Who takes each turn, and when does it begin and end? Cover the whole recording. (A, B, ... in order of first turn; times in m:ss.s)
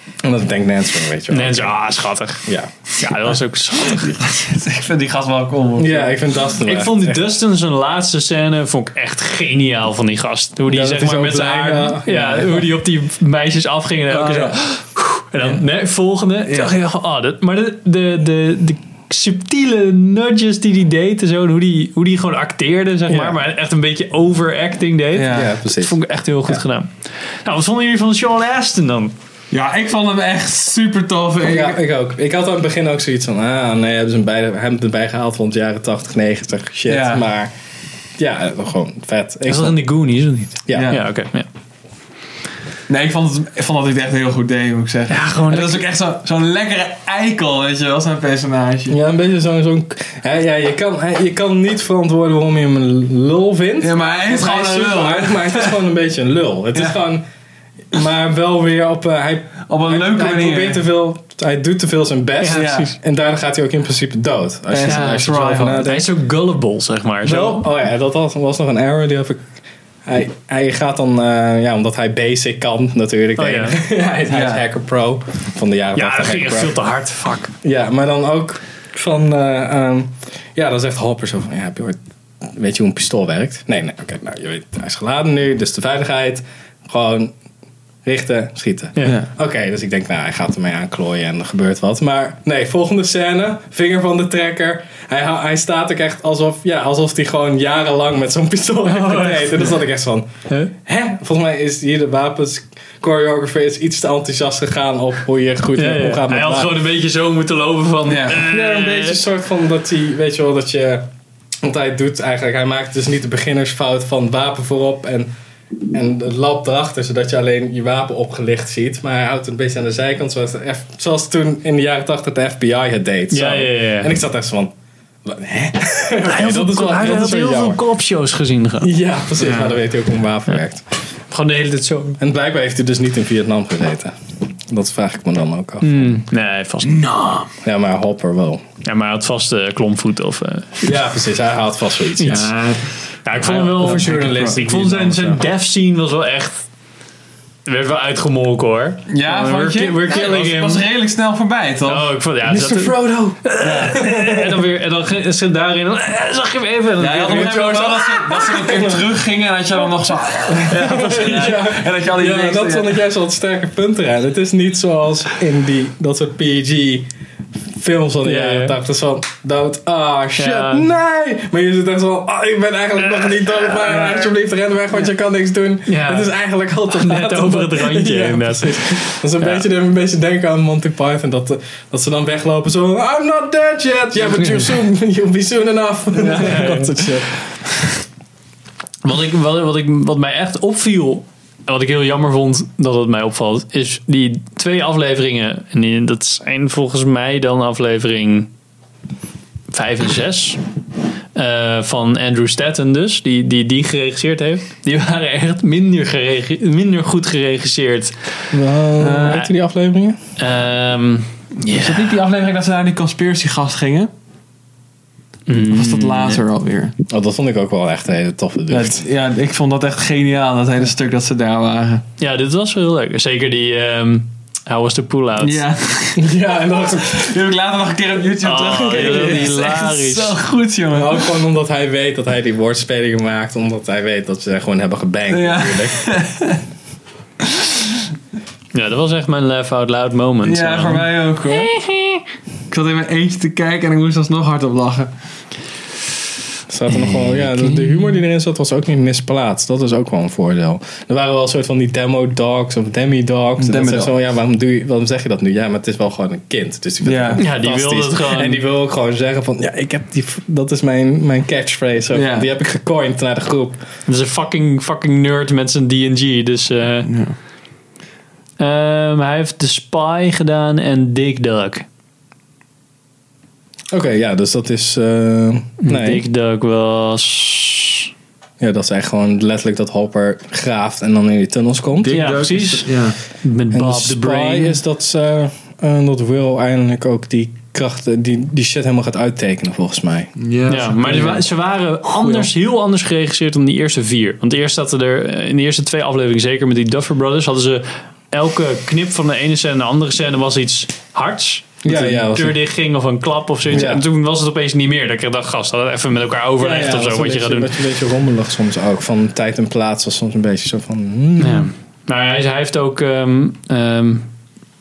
0:00.2-0:01.7 A
0:01.3-0:04.2 B
0:02.4-0:02.7 A
0:03.9-0:06.4 C
0:05.8-0:07.3 A
0:06.6-0:29.1 B
0:10.7-0:12.7 A
0:14.1-0:14.6 C
0:16.5-0:16.7 C
0:23.1-0:23.4 A
0:25.2-0:25.5 C
0:25.3-0:26.0 A
0:29.5-0:31.8 C
0:31.4-0:37.5 A
0:36.9-0:37.3 C
0:38.2-0:39.8 A
0:39.5-0:41.5 B
0:40.7-0:40.9 A
0:40.7-0:41.1 C
0:42.9-0:49.0 C
0:45.1-0:45.8 B
0:48.9-0:57.2 A
0:53.8-0:55.8 C
0:57.9-1:06.1 A
0:59.7-1:00.8 C
1:02.4-1:02.7 B
1:02.4-1:02.9 C
1:04.7-1:05.8 C
1:04.8-1:07.7 B
1:07.2-1:09.5 A
1:10.0-1:16.8 A
1:13.4-1:13.8 B
1:14.3-1:14.6 C
1:16.0-1:17.5 B
1:17.6-1:27.3 A
1:28.0-1:46.7 A
1:29.0-1:29.2 B
1:38.9-1:39.7 B
1:45.8-1:49.2 B
1:48.1-1:48.4 C
1:48.3-1:51.1 A
1:51.6-1:55.3 A
1:55.9-2:04.7 A
2:03.3-2:04.1 B
2:05.2-2:07.8 A
2:06.2-2:08.9 B
2:08.8-2:10.8 A
2:09.4-2:09.8 C
2:11.3-2:12.2 B
2:12.2-2:16.2 A
2:15.8-2:17.1 B
2:16.9-2:17.5 C
2:17.6-2:18.6 A
2:18.8-2:20.9 B
2:20.8-2:22.5 A
2:22.2-2:22.5 B
2:22.3-2:24.6 C
2:23.2-2:26.7 B
2:23.8-2:25.4 A
2:27.6-2:30.9 B
2:29.1-2:33.0 C
2:31.8-2:38.7 B
2:32.6-2:33.2 A
2:33.6-2:34.1 C
2:34.0-2:34.3 A
2:37.0-2:43.0 C
2:37.3-2:39.1 A
2:40.5-2:47.1 A
2:40.6-2:41.5 B
2:47.7-3:07.4 A
2:48.2-2:48.8 B
2:50.4-2:50.9 B
2:53.5-2:54.0 B
2:55.9-2:56.3 B
2:56.9-2:59.6 B
3:06.2-3:06.9 C
3:06.3-3:07.0 B
3:09.0-3:18.5 B
3:19.7-3:20.6 B
3:21.4-3:28.3 B
3:28.5-3:30.2 A
3:29.0-3:29.5 C
3:30.4-3:32.2 B
3:31.7-3:34.1 C
3:35.5-3:36.4 B
3:35.7-3:37.0 C
3:37.1-3:39.1 A
3:38.7-3:42.0 C
3:42.2-3:45.6 B
3:45.4-3:51.4 C
3:46.2-3:47.3 A
3:48.4-3:50.4 B
3:49.1-3:49.4 A
3:51.0-3:56.1 A
3:55.3-3:56.6 C
3:57.5-3:58.0 C
3:58.7-4:02.2 B
4:00.4-4:01.8 C
4:02.7-4:05.1 C
4:06.7-4:23.8 A
4:13.6-4:14.1 C
4:17.0-4:17.4 C
4:17.4-4:18.6 B
4:22.1-4:22.5 C
4:24.1-4:27.1 B
4:27.0-4:27.4 C
4:28.6-4:31.8 B
4:33.9-4:36.2 A
4:35.8-4:38.1 B
4:38.6-4:42.2 A
4:42.0-4:43.2 C
4:42.1-4:44.8 B
4:43.7-4:50.3 A
4:50.4-4:51.4 C
4:50.7-5:07.7 B
5:01.8-5:02.6 A
5:03.7-5:04.0 A
5:06.6-5:11.7 A
5:11.4-5:14.3 B